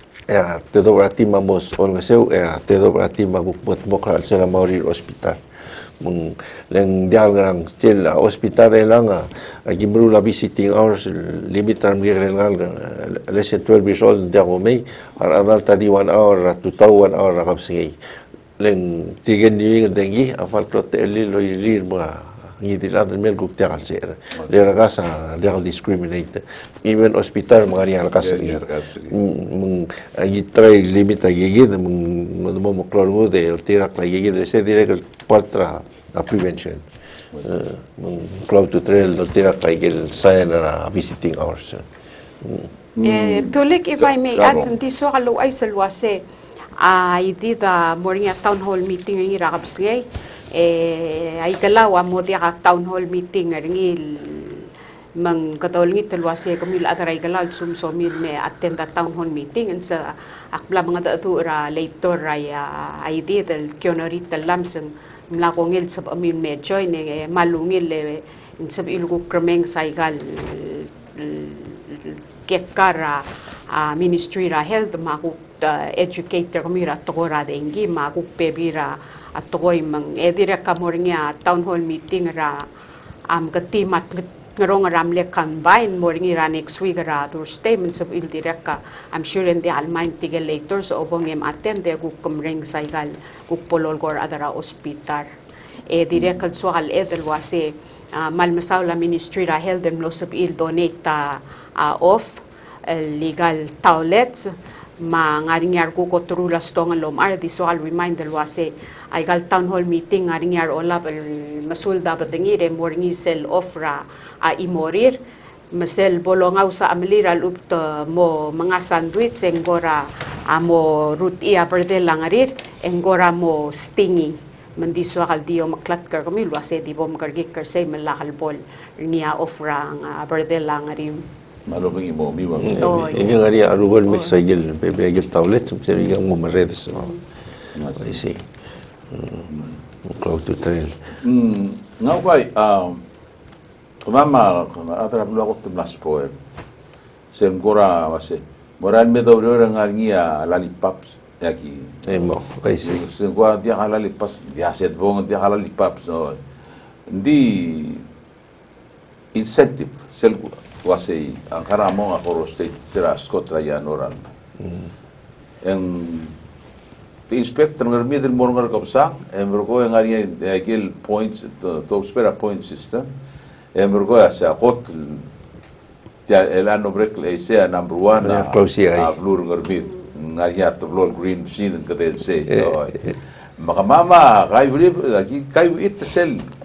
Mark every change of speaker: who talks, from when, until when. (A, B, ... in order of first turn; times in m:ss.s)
0:00.3-0:05.4 A
0:06.0-0:18.0 A
0:18.6-0:36.8 A
0:28.2-0:29.2 B
0:37.3-0:37.6 B
0:37.4-0:41.8 A
0:42.4-0:42.7 A
0:43.0-0:43.6 B
0:43.0-0:46.2 C
0:44.3-0:44.7 B
0:46.8-0:54.7 C
0:55.2-1:22.7 C
1:23.3-1:35.3 C
1:35.9-1:55.2 C
1:55.7-2:11.2 C
2:11.7-2:13.4 B
2:12.6-2:17.2 A
2:12.8-2:13.3 C
2:14.1-2:14.4 C
2:17.8-2:18.2 B
2:18.0-2:18.4 A
2:19.1-2:19.5 A
2:19.5-2:19.8 B
2:20.0-2:21.0 A
2:21.2-2:23.0 B
2:24.0-2:26.4 B
2:27.3-2:36.4 B
2:32.1-2:33.0 A
2:37.1-2:38.1 B
2:39.3-2:44.3 B
2:44.6-2:44.9 A
2:45.6-2:46.3 B
2:47.3-2:53.1 B
2:53.8-2:55.3 B
2:56.3-3:06.5 B
2:58.2-2:59.1 A
3:02.5-3:03.1 A